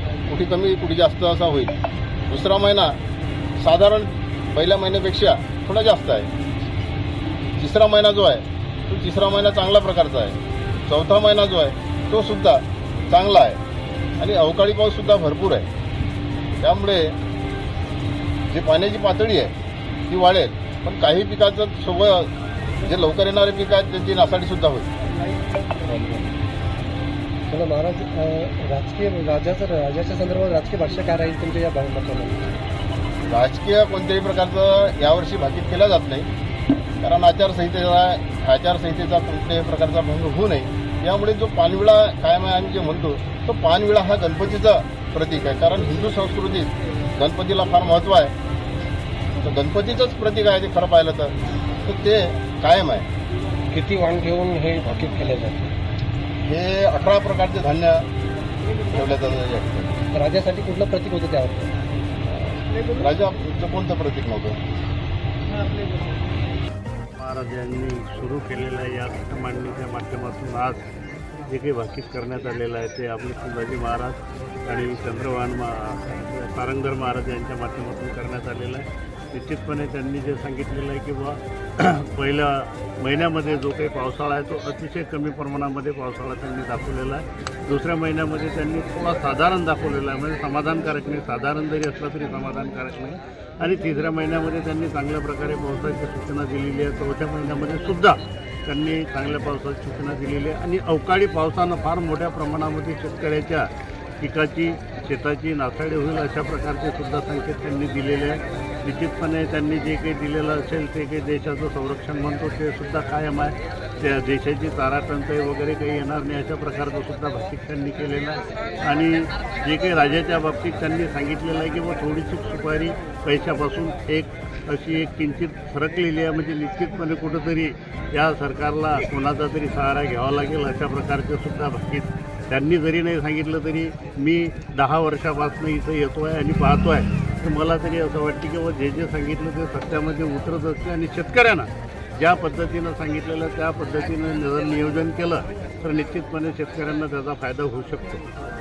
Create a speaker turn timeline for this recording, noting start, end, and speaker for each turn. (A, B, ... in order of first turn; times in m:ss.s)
0:00.3-0:01.8 A
0:02.3-0:03.0 A
0:03.6-0:06.3 A
0:07.6-0:13.6 A
0:14.2-0:15.7 A
0:16.6-0:17.1 A
0:18.5-0:19.5 A
0:20.1-0:24.9 A
0:25.4-0:26.3 B
0:27.5-0:32.4 B
0:33.3-0:36.3 A
0:37.0-0:48.3 A
0:49.4-0:51.3 A
0:51.8-0:53.1 A
0:53.7-0:55.7 B
0:56.4-0:58.0 A
0:58.9-0:59.9 A
1:00.1-1:01.7 B
1:02.3-1:04.6 A
1:07.2-1:10.8 C
1:11.5-2:28.2 C